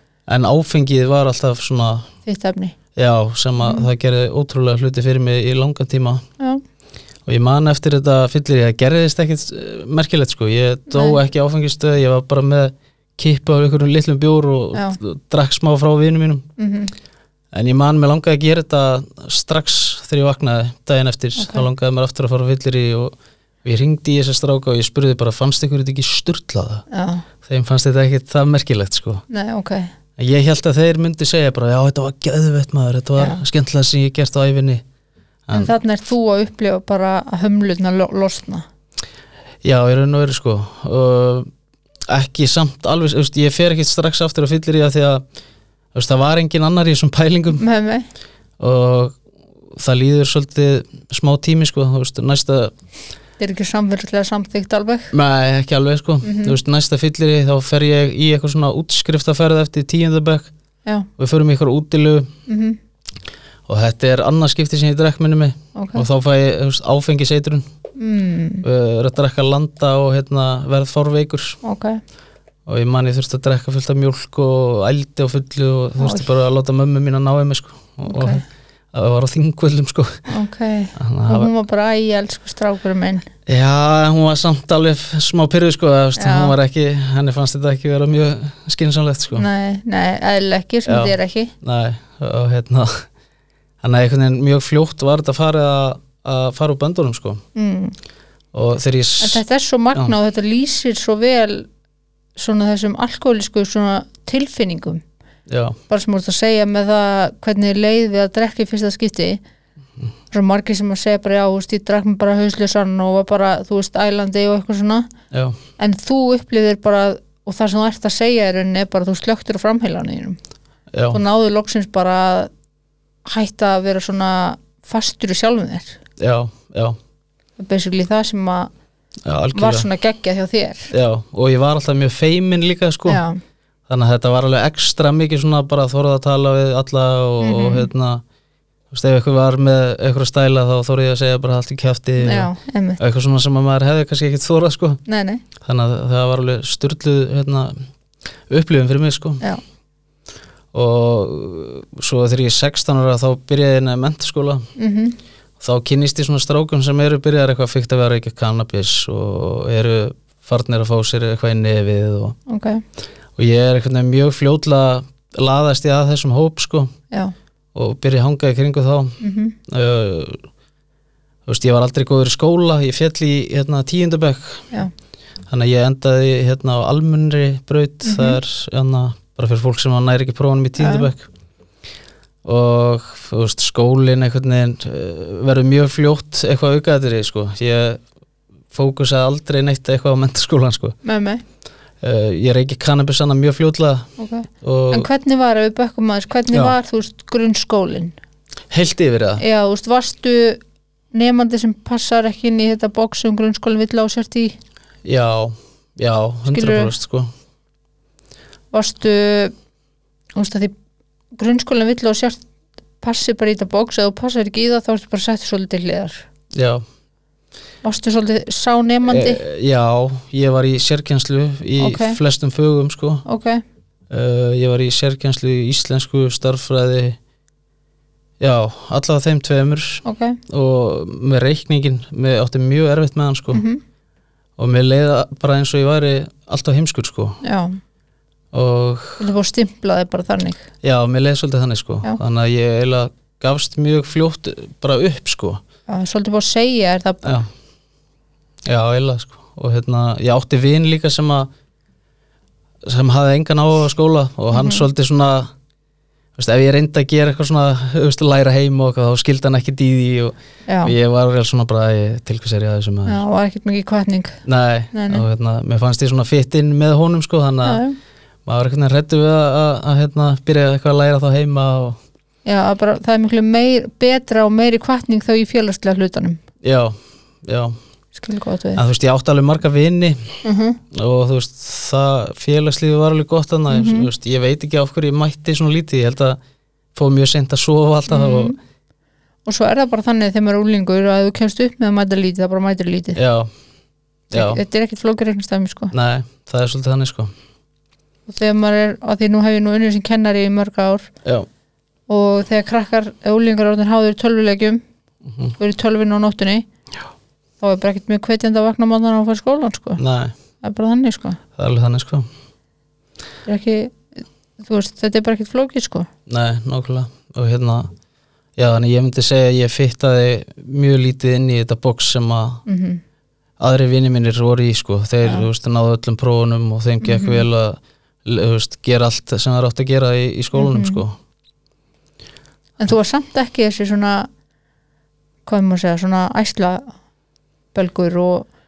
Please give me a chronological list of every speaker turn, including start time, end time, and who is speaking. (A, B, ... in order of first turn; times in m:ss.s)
0:00.3-0:02.1 A
0:02.2-0:02.8 B
0:03.0-0:06.2 A
0:03.6-0:03.9 B
0:07.3-0:16.5 A
0:10.9-0:11.2 B
0:16.6-0:16.9 B
0:17.5-0:26.8 A
0:21.4-0:21.7 B
0:26.9-0:27.2 B
0:27.4-0:29.2 A
0:29.3-0:29.9 B
0:30.2-0:34.8 A
0:33.2-0:33.4 B
0:35.5-0:35.7 A
0:35.5-0:38.6 B
0:39.6-0:41.5 A
0:42.1-0:45.2 A
0:45.9-0:47.6 A
0:47.6-0:48.1 B
0:48.6-0:49.2 A
0:49.7-0:52.7 A
0:53.4-0:55.1 B
0:55.1-1:00.5 A
0:56.2-0:56.6 B
1:01.2-1:02.3 A
1:02.5-1:02.8 B
1:03.7-1:07.6 A
1:05.8-1:06.0 B
1:08.0-1:08.6 B
1:08.6-1:11.6 A
1:11.6-1:12.0 B
1:12.7-1:20.2 A
1:16.0-1:16.3 B
1:18.1-1:18.4 B
1:20.3-1:23.3 B
1:21.0-1:21.5 A
1:23.5-1:29.5 A
1:26.2-1:26.6 B
1:29.3-1:31.5 B
1:30.9-1:33.1 A
1:33.8-1:37.4 A
1:37.6-1:38.0 B
1:38.5-1:39.4 A
1:39.2-1:41.7 B
1:42.4-1:45.0 B
1:45.5-1:45.8 A
1:45.9-1:49.4 B
1:50.3-1:55.1 B
1:55.3-1:55.6 A
1:55.8-2:00.4 B
2:00.9-2:01.2 A
2:01.1-2:02.5 B
2:03.2-2:06.0 B
2:06.2-2:07.0 A
2:07.6-2:08.7 B
2:09.2-2:09.9 A
2:09.6-2:10.9 B
2:10.9-2:13.2 A
2:13.1-2:13.4 B
2:13.9-2:18.2 A
2:17.4-2:17.9 B
2:18.9-2:25.0 A
2:22.2-2:23.0 B
2:25.1-2:25.4 B
2:25.6-2:27.8 A
2:28.5-2:29.4 A
2:30.7-2:34.7 A
2:34.8-2:35.2 B
2:35.6-2:42.4 A
2:42.5-2:42.8 B
2:43.4-2:46.9 A
2:47.7-2:50.4 A
2:49.2-2:49.6 B
2:51.5-2:54.7 A
2:55.5-3:01.3 A
2:58.0-2:58.4 B
3:00.8-3:01.1 B
3:02.4-3:08.0 A
3:08.7-3:11.0 A
3:11.0-3:11.4 B
3:12.0-3:14.1 A
3:14.2-3:18.2 B
3:14.6-3:15.1 A
3:18.7-3:19.4 A
3:19.4-3:20.6 B
3:21.1-3:24.6 B
3:25.0-3:27.3 A
3:26.5-3:26.9 B
3:28.7-3:29.5 B
3:30.4-3:30.7 B
3:31.4-3:32.4 B
3:33.0-3:36.2 B
3:36.5-3:36.8 A
3:37.8-3:39.4 B
3:39.1-3:43.2 A
3:41.8-3:42.2 B
3:43.3-3:43.6 B
3:44.1-3:47.2 A
3:48.4-3:53.6 A
3:50.0-3:50.4 B
3:53.5-3:53.8 B
3:54.6-3:57.4 A
3:57.4-3:57.8 B
3:58.5-3:59.3 A
3:59.2-4:00.7 B
4:00.8-4:05.6 A
4:05.9-4:07.4 B
4:08.7-4:11.5 A
4:12.8-4:15.5 A
4:14.5-4:14.9 B
4:16.4-4:23.2 A
4:20.7-4:20.9 B
4:23.1-4:25.2 B
4:24.4-4:27.8 A
4:27.6-4:28.0 B
4:28.5-4:32.0 A
4:32.5-4:36.4 B
4:36.6-4:37.8 A
4:38.1-4:38.8 B
4:38.8-4:40.4 A
4:40.4-4:40.8 B
4:40.9-4:46.4 A
4:43.7-4:44.1 B
4:47.0-4:48.6 A
4:48.1-4:48.6 B
4:49.5-4:53.2 B
4:53.2-4:53.5 A
4:54.3-4:54.6 A
4:54.3-4:55.9 B
4:55.9-4:57.3 A
4:58.3-5:01.1 B
5:02.1-5:04.8 B
5:05.6-5:06.7 B
5:07.6-5:10.0 B
5:10.0-5:10.4 A
5:10.6-5:11.4 B
5:11.6-5:12.3 A
5:13.5-5:14.1 B
5:14.6-5:16.1 B
5:16.3-5:17.9 A
5:18.6-5:22.6 A
5:22.7-5:23.0 B
5:23.6-5:31.2 A
5:27.0-5:27.5 B
5:30.5-5:31.0 B
5:32.8-5:34.3 B
5:35.5-5:36.9 B
5:37.7-5:38.5 B